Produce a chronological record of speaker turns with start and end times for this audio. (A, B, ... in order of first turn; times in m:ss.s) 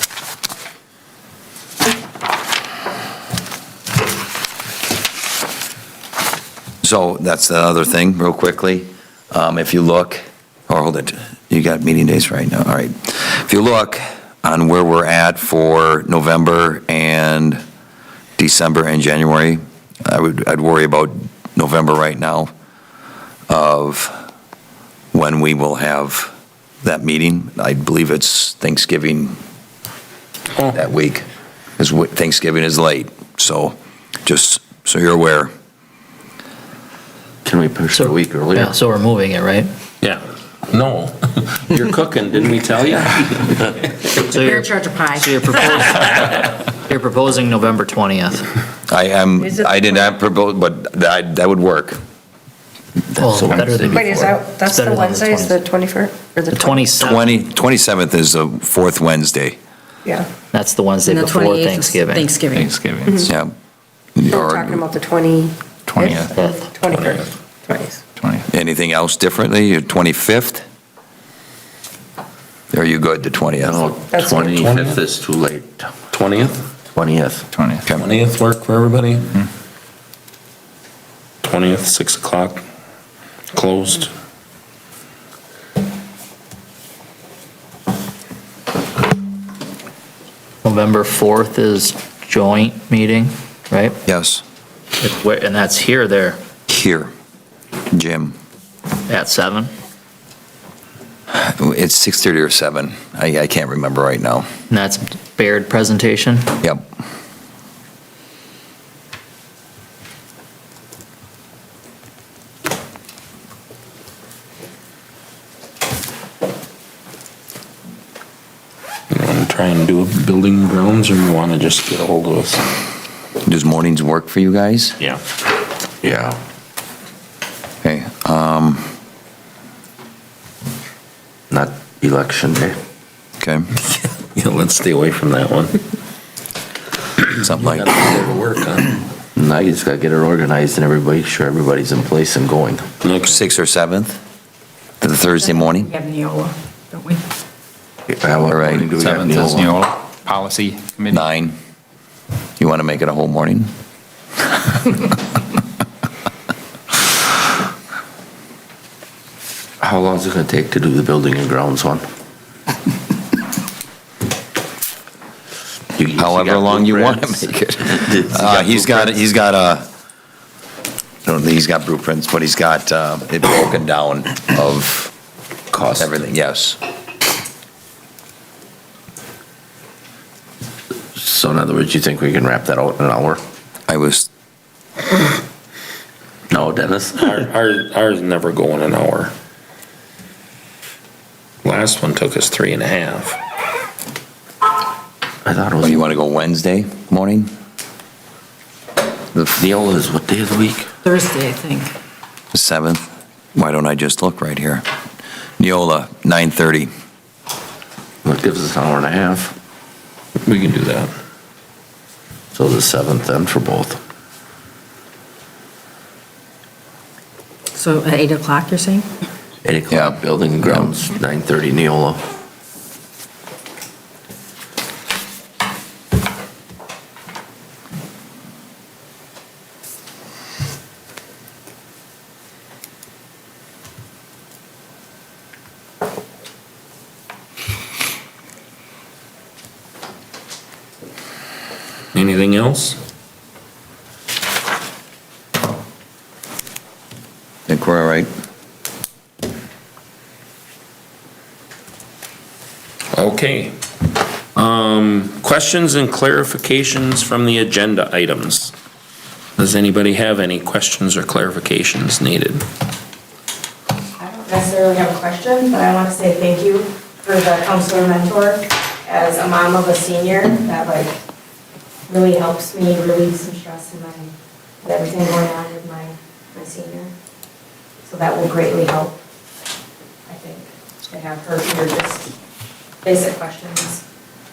0:06.8-0:17.6 A
0:18.4-0:22.5 A
0:23.5-0:24.1 A
0:25.1-0:26.3 A
0:26.8-0:29.4 A
0:30.7-0:31.2 A
0:31.8-0:35.5 A
0:37.4-0:38.7 B
0:37.9-0:39.7 C
0:40.0-0:43.8 D
0:44.2-0:48.5 C
0:44.3-0:45.7 E
0:48.9-0:52.0 A
0:53.1-0:54.2 B
0:53.2-0:55.6 C
0:53.9-0:57.0 F
0:56.5-0:57.2 C
0:57.0-0:59.6 A
1:00.5-1:02.3 C
1:01.0-1:02.7 E
1:02.5-1:03.3 G
1:03.2-1:03.5 A
1:04.2-1:04.8 A
1:04.3-1:08.0 F
1:05.9-1:06.3 G
1:06.9-1:07.2 D
1:08.2-1:08.4 G
1:08.5-1:10.6 A
1:12.7-1:13.9 A
1:13.7-1:15.9 B
1:14.1-1:14.5 F
1:14.4-1:15.0 D
1:16.1-1:16.6 D
1:16.9-1:17.5 B
1:17.5-1:17.8 G
1:18.0-1:19.4 D
1:21.4-1:22.6 D
1:23.5-1:24.1 D
1:30.6-1:34.0 C
1:34.0-1:34.4 A
1:35.0-1:36.4 C
1:36.7-1:37.1 A
1:37.9-1:38.3 A
1:39.1-1:39.7 C
1:41.3-1:44.4 A
1:44.7-1:46.6 C
1:46.6-1:46.9 A
1:59.1-2:02.6 D
2:03.4-2:05.0 A
2:06.0-2:06.4 B
2:07.8-2:08.9 A
2:11.5-2:12.8 B
2:13.4-2:13.7 A
2:13.9-2:15.8 D
2:17.2-2:19.0 D
2:17.4-2:18.0 A
2:19.3-2:22.9 B
2:23.0-2:23.3 D
2:23.3-2:24.2 A
2:25.0-2:25.9 A
2:26.0-2:26.5 H
2:28.1-2:29.8 B
2:28.5-2:28.9 A
2:28.9-2:31.2 G
2:31.1-2:31.6 A
2:32.6-2:33.7 A
2:39.8-2:42.0 B
2:45.9-2:49.2 B
2:46.1-2:49.8 A
2:51.2-2:55.1 A
2:55.7-2:56.1 B
2:56.0-2:56.8 A
3:01.1-3:03.4 B
3:03.9-3:04.3 A
3:06.5-3:07.4 B
3:07.2-3:09.3 D
3:11.6-3:13.4 D
3:15.4-3:16.2 B
3:15.8-3:17.5 A
3:19.3-3:19.6 A
3:19.6-3:20.9 B
3:21.0-3:21.9 E
3:22.5-3:24.8 A
3:25.6-3:26.9 A
3:28.2-3:29.5 B
3:30.4-3:31.1 D
3:32.5-3:34.0 B
3:37.7-3:39.1 E
3:39.6-3:42.2 B
3:39.9-3:40.9 A
4:02.1-4:03.0 D
4:07.7-4:08.3 A
4:13.1-4:13.7 D
4:14.5-4:18.7 D
4:19.6-4:22.6 D
4:24.4-4:31.1 H
4:32.1-4:34.3 H
4:34.8-4:37.1 H
4:38.1-4:39.1 H
4:40.3-4:42.3 H
4:43.0-4:44.0 H